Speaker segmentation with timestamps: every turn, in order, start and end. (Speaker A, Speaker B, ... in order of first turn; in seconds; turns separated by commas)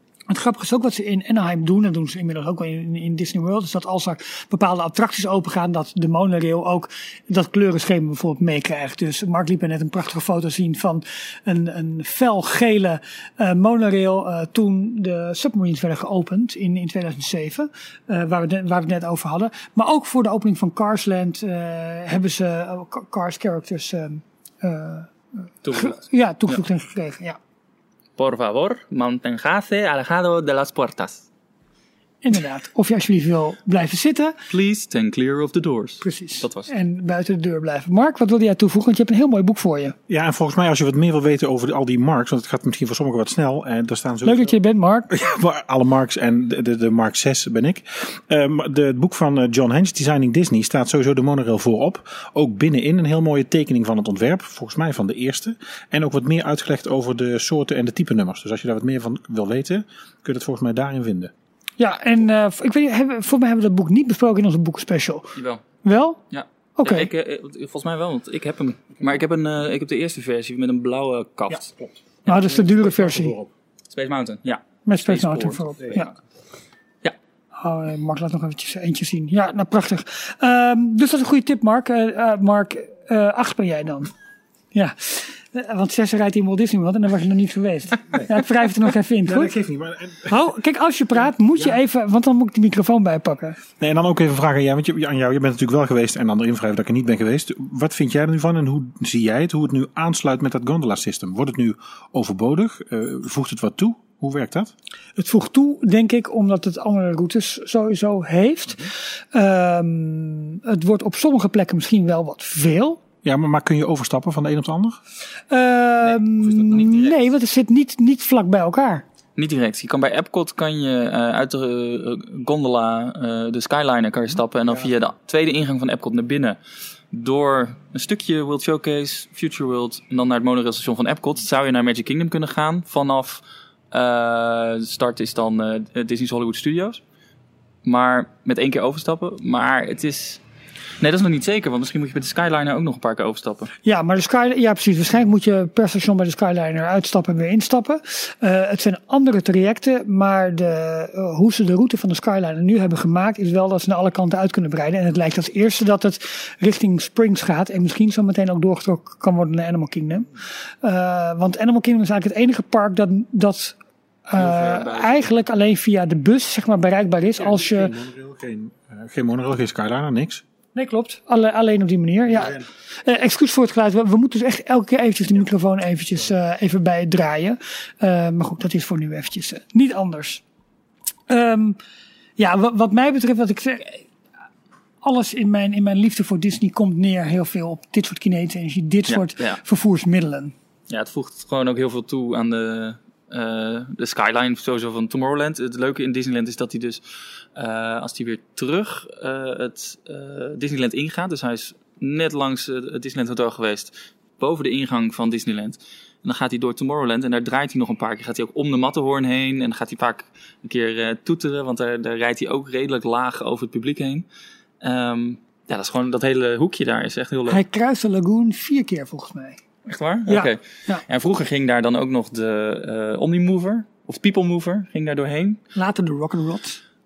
Speaker A: 0.3-25.1, Speaker B: 25.6-26.6, Speaker A: 25.7-27.4, Speaker B: 28.2-31.2, Speaker A: 32.2-34.4, Speaker B: 34.5-36.7, Speaker A: 36.0-40.0, Speaker C: 40.1-44.6, Speaker A: 44.2-45.1, Speaker C: 45.1-61.3, Speaker A: 61.8-66.2, Speaker B: 65.4-65.6, Speaker B: 66.3-71.7, Speaker A: 66.8-67.1, Speaker C: 71.5-73.5, Speaker A: 72.3-73.3, Speaker B: 73.9-76.1, Speaker A: 74.9-76.1, Speaker A: 77.6-84.1, Speaker A: 84.7-89.5, Speaker C: 89.3-90.5, Speaker A: 90.3-93.6, Speaker C: 93.8-104.7, Speaker A: 105.2-113.0, Speaker C: 113.2-115.0, Speaker A: 115.5-119.0, Speaker B: 116.1-117.1, Speaker B: 119.4-126.6, Speaker B: 127.1-137.0, Speaker B: 137.8-140.4, Speaker B: 141.0-143.7, Speaker A: 143.8-160.3, Speaker A: 160.8-167.9, Speaker B: 164.4-165.3, Speaker C: 167.5-170.4, Speaker A: 170.7-180.4, Speaker A: 181.3-181.8, Speaker A: 182.4-184.1, Speaker A: 185.0-190.6, Speaker B: 189.1-189.6, Speaker B: 190.9-197.0, Speaker B: 197.6-214.2, Speaker B: 214.8-217.6, Speaker A: 217.5-219.6, Speaker B: 219.9-225.6, Speaker A: 220.3-221.0, Speaker A: 225.8-226.8